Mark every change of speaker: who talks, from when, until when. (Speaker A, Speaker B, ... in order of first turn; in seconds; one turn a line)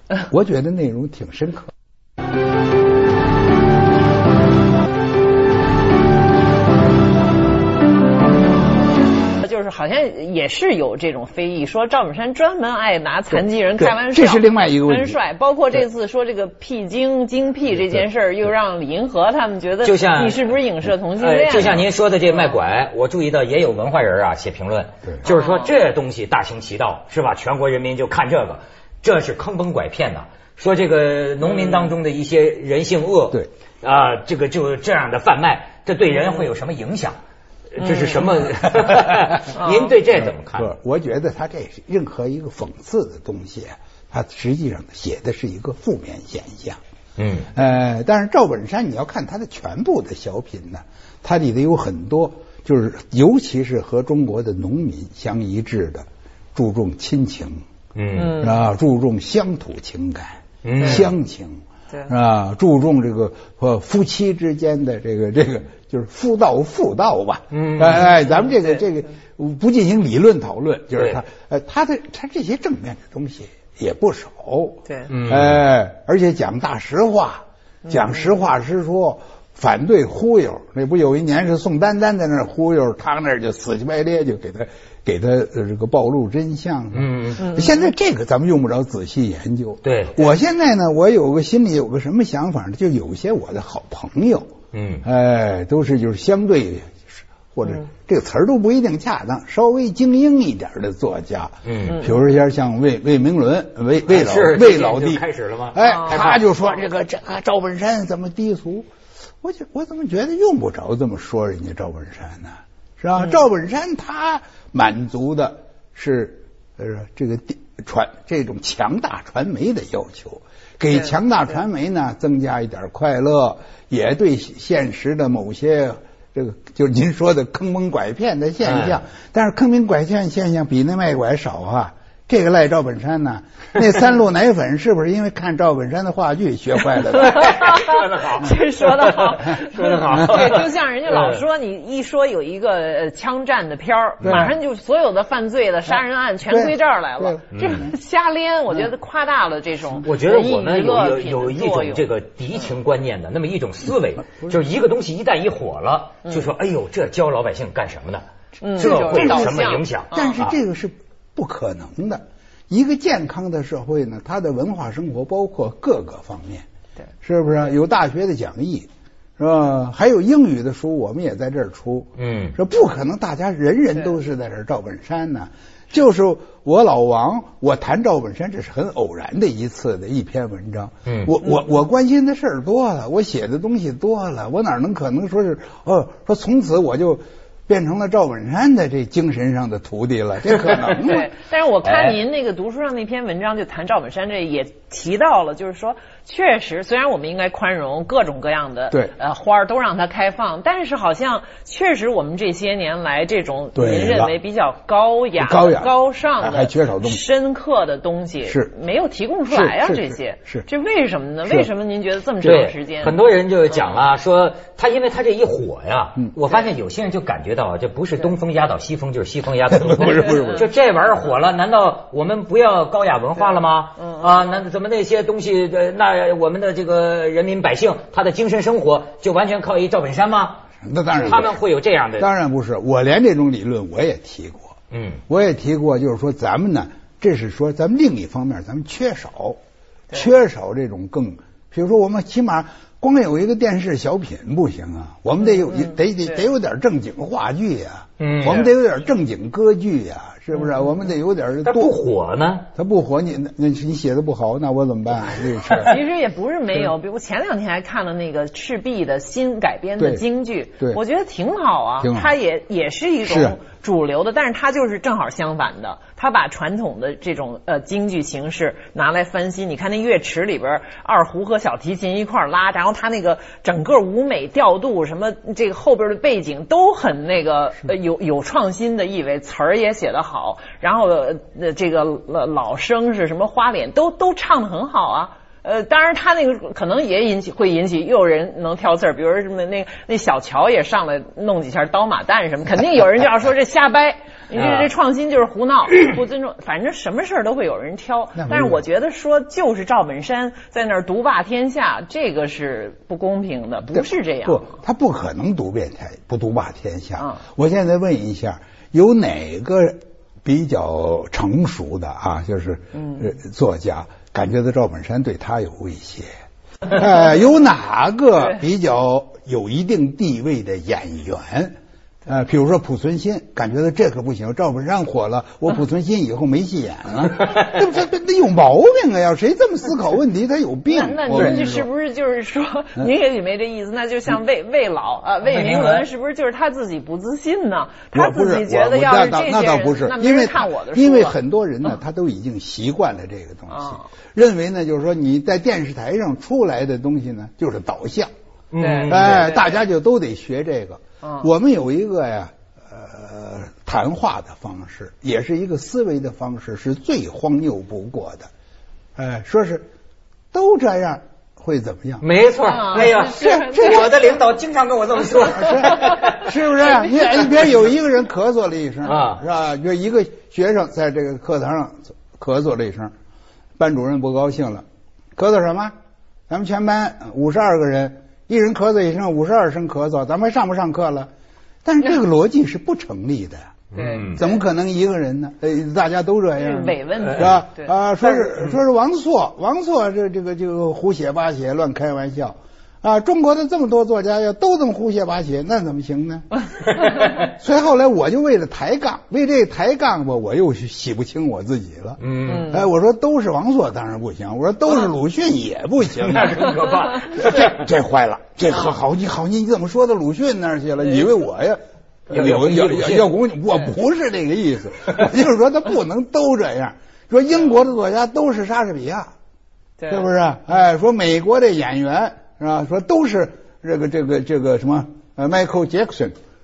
Speaker A: 0.3-1.7
Speaker B: 9.4-22.6
Speaker A: 13.3-15.2
Speaker C: 19.8-20.5
Speaker C: 21.2-37.2
Speaker B: 25.2-25.7
Speaker C: 37.7-40.7
Speaker B: 37.8-38.3
Speaker A: 38.6-39.4
Speaker B: 39.5-39.9
Speaker A: 40.5-46.8
Speaker C: 47.2-47.5
Speaker A: 47.5-57.6
Speaker C: 57.9-58.5
Speaker B: 58.1-58.6
Speaker A: 58.4-94.5
Speaker C: 60.6-61.1
Speaker C: 67.5-68.1
Speaker C: 71.0-71.2
Speaker C: 75.1-75.6
Speaker B: 77.9-78.1
Speaker C: 86.9-87.5
Speaker C: 89.8-90.2
Speaker C: 94.7-95.0
Speaker A: 95.0-108.9
Speaker C: 101.6-102.1
Speaker C: 104.1-106.4
Speaker A: 109.4-137.7
Speaker C: 128.6-129.0
Speaker B: 137.2-152.1
Speaker C: 137.2-141.4
Speaker A: 140.1-140.5
Speaker C: 144.2-144.5
Speaker A: 144.2-144.5
Speaker A: 146.5-147.9
Speaker C: 147.5-147.9
Speaker C: 150.0-160.6
Speaker B: 158.6-160.4
Speaker A: 158.8-166.6
Speaker A: 167.2-191.3
Speaker C: 172.2-172.5
Speaker C: 181.1-181.3
Speaker B: 191.0-213.2
Speaker C: 191.8-192.2
Speaker A: 203.7-204.3
Speaker A: 205.4-207.2
Speaker A: 208.4-208.7
Speaker A: 209.5-210.7
Speaker C: 212.4-230.6
Speaker A: 219.7-220.6
Speaker B: 220.2-220.6
Speaker B: 224.0-224.2
Speaker A: 230.8-231.6
Speaker C: 231.1-232.3
Speaker A: 232.2-234.7
Speaker C: 234.9-235.2
Speaker A: 235.3-239.6
Speaker A: 240.1-252.0
Speaker B: 245.7-245.9
Speaker C: 248.2-248.7
Speaker C: 251.6-252.7
Speaker A: 252.7-256.0
Speaker B: 255.8-304.7
Speaker A: 260.0-260.2
Speaker A: 262.0-262.3
Speaker A: 263.2-263.6
Speaker C: 294.6-294.9
Speaker A: 298.3-298.8
Speaker A: 303.9-316.3
Speaker A: 316.9-331.9
Speaker B: 330.9-341.4
Speaker C: 335.4-336.1
Speaker A: 338.1-348.3
Speaker B: 343.7-344.1
Speaker C: 348.7-349.6
Speaker B: 348.8-349.7
Speaker A: 349.1-358.5
Speaker B: 351.2-351.5
Speaker A: 359.1-359.9
Speaker A: 360.5-362.2
Speaker C: 362.2-366.5
Speaker B: 362.7-364.3
Speaker A: 362.9-364.3
Speaker A: 365.5-373.1
Speaker C: 369.0-369.4
Speaker A: 373.8-375.9
Speaker A: 376.5-381.3
Speaker A: 381.8-396.5
Speaker C: 383.9-384.4
Speaker B: 383.9-384.6
Speaker B: 386.6-387.9
Speaker C: 397.0-397.4
Speaker A: 397.3-419.3
Speaker C: 402.2-402.8
Speaker B: 402.5-402.8
Speaker C: 406.1-407.8
Speaker C: 412.3-413.3
Speaker B: 420.0-420.2
Speaker A: 420.1-426.4